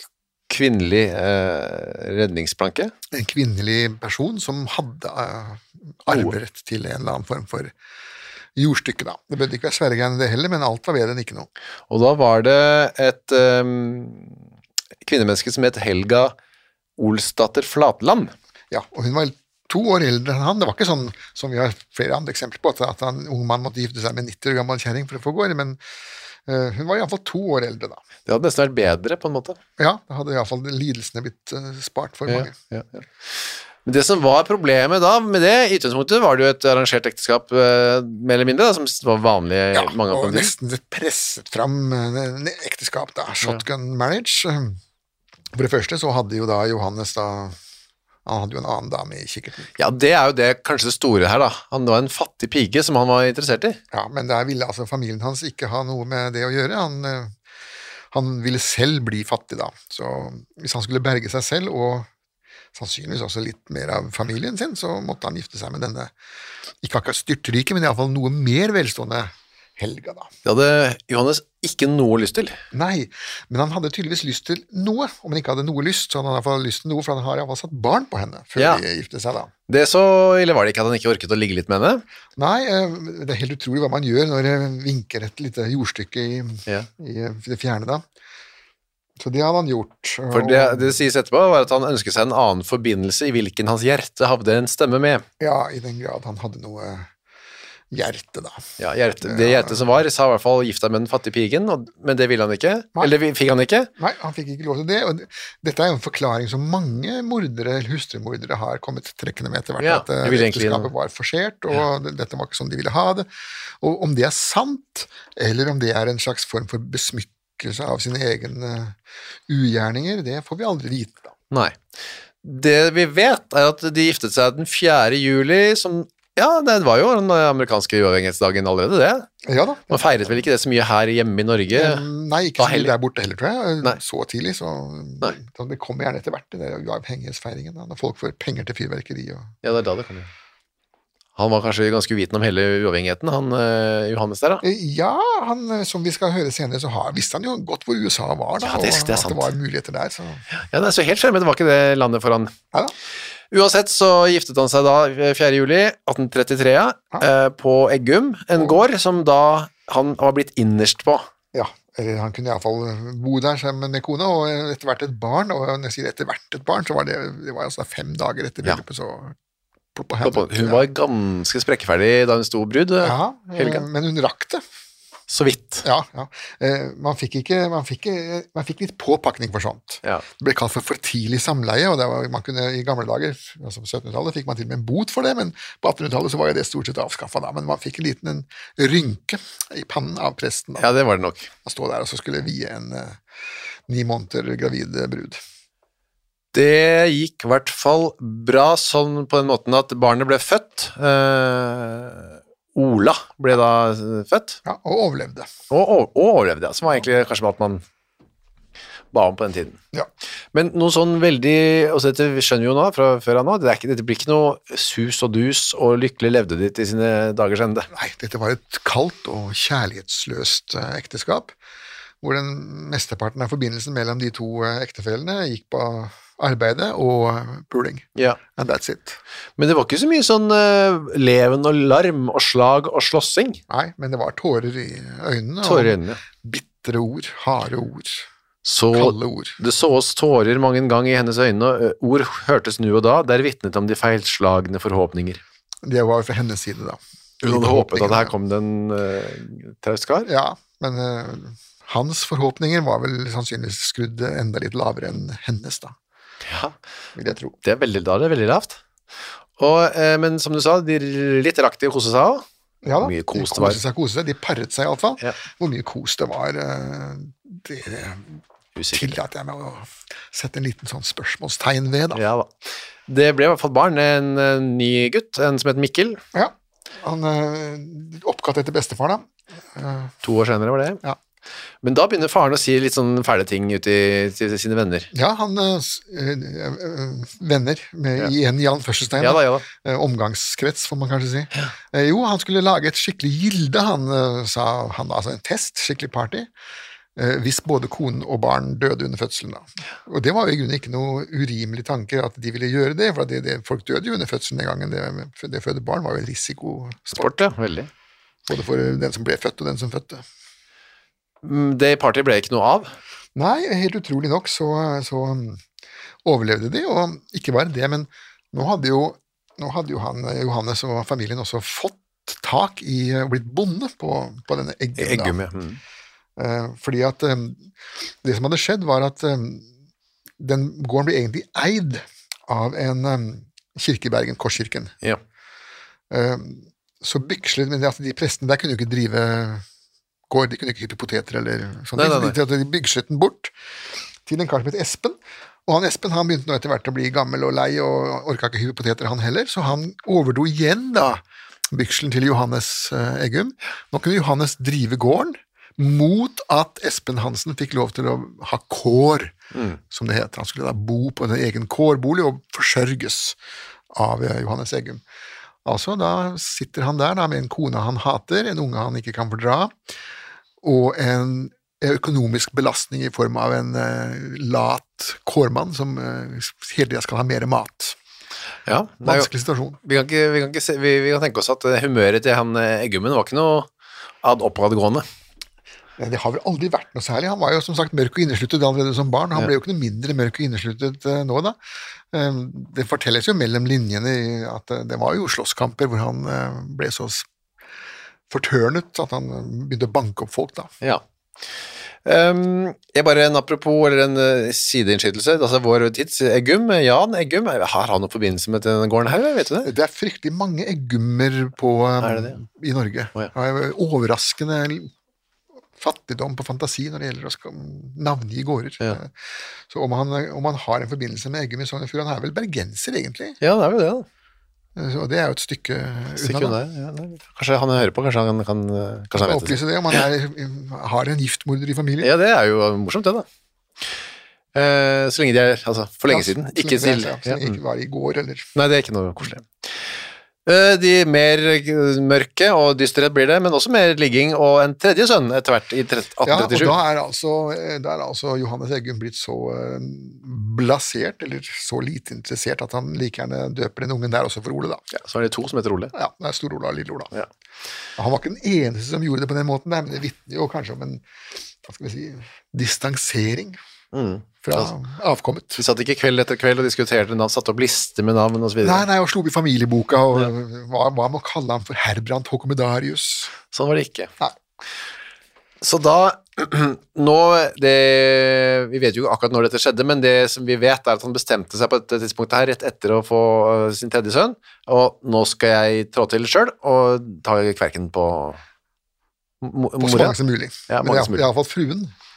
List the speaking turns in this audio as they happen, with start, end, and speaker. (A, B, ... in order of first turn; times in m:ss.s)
0:00.5-0:02.9 A
0:03.1-0:07.7 B
0:06.1-0:06.3 A
0:08.6-0:11.5 B
0:11.9-0:14.4 A
0:15.0-0:16.3 A
0:17.0-0:18.3 A
0:18.7-0:25.8 B
0:26.4-0:28.0 B
0:28.3-0:29.6 A
0:29.8-0:32.5 B
0:32.3-0:40.5 A
0:39.7-0:44.8 B
0:45.5-0:47.6 B
0:48.2-0:49.7 B
0:49.8-0:53.8 A
0:53.9-0:57.3 B
0:58.1-1:02.1 B
1:02.7-1:06.1 B
1:06.8-1:10.3 B
1:10.4-1:12.6 A
1:12.7-1:19.5 B
1:18.6-1:18.8 A
1:19.7-1:22.0 A
1:22.4-1:28.0 B
1:29.2-1:31.0 B
1:30.3-1:35.2 A
1:35.4-1:37.1 B
1:37.9-1:38.6 B
1:38.8-1:43.9 A
1:39.2-1:39.9 B
1:44.0-1:53.3 B
1:49.8-1:50.9 A
1:53.8-2:01.3 B
2:01.5-2:01.8 A
2:02.4-2:09.3 A
2:09.4-2:10.3 B
2:09.9-2:12.0 A
2:11.7-2:19.5 B
2:12.6-2:12.9 A
2:19.6-2:20.3 A
2:21.4-2:24.6 A
2:24.6-2:30.4 B
2:28.6-2:29.5 A
2:30.5-2:32.5 A
2:33.5-2:41.2 A
2:41.5-2:49.3 B
2:49.9-2:50.8 B
2:50.2-2:53.8 A
2:53.0-2:54.6 B
2:55.3-2:55.8 A
2:55.8-3:10.9 B
3:10.8-3:11.5 A
3:11.6-3:13.2 B
3:13.9-3:15.4 B
3:16.5-3:24.6 A
3:24.6-3:25.5 B
3:25.7-3:27.8 A
3:29.1-3:29.8 A
3:30.5-3:37.9 A
3:37.9-3:41.5 B
3:42.2-3:49.2 B
3:49.6-3:53.6 A
3:53.7-3:58.3 B
3:55.6-3:56.2 A
3:58.6-4:05.4 A
3:58.9-3:59.6 B
4:05.8-4:08.3 B
4:07.4-4:10.3 A
4:10.2-4:15.9 B
4:16.5-4:16.7 A
4:17.2-4:17.6 B
4:17.6-4:18.8 A
4:19.6-4:23.8 A
4:22.8-4:28.4 B
4:28.8-4:29.2 A
4:28.9-4:32.2 B
4:32.1-4:32.5 A
4:33.1-4:36.2 A
4:36.3-4:40.1 B
4:40.2-4:41.0 A
4:41.8-4:45.1 A
4:45.1-4:56.5 B
4:49.2-4:49.6 A
4:57.2-5:07.4 B
5:07.2-5:07.9 A
5:08.5-5:10.2 B
5:11.4-5:12.9 A
5:13.4-5:15.6 B
5:16.2-5:25.4 B
5:25.0-5:25.8 A
5:26.4-5:27.7 B
5:28.2-5:29.7 B
5:30.4-5:34.9 B
5:36.1-5:39.6 B
5:40.3-5:43.5 B
5:42.0-5:42.4 A
5:44.2-5:59.3 B
5:59.5-5:59.8 A
5:59.9-6:03.4 B
6:03.9-6:05.0 B
6:05.6-6:09.7 B
6:10.6-6:18.0 B
6:18.7-6:19.3 A
6:19.0-6:19.8 B
6:19.8-6:23.7 A
6:24.2-6:25.0 A
6:26.0-6:31.6 B
6:32.1-6:37.2 B
6:38.3-6:40.7 B
6:42.0-6:49.7 A
6:49.6-6:54.9 B
6:52.0-6:52.4 A
6:55.8-6:59.1 B
6:59.7-7:03.4 B
7:03.4-7:04.0 A
7:04.8-7:06.6 B
7:06.2-7:09.6 A
7:09.1-7:12.1 B
7:12.0-7:13.2 A
7:14.5-7:17.5 A
7:16.1-7:18.5 B
7:18.6-7:19.7 A
7:20.4-7:26.8 A
7:26.2-7:34.8 B
7:34.9-7:35.9 A
7:35.9-7:37.1 B
7:38.0-7:41.0 B
7:41.6-7:43.6 B
7:43.9-7:44.7 A
7:44.4-7:45.6 B
7:45.6-7:48.8 A
7:48.6-7:53.3 B
7:53.5-7:54.1 A
7:55.6-8:08.4 A
8:09.4-8:10.2 A
8:09.8-8:11.9 B
8:10.7-8:11.2 A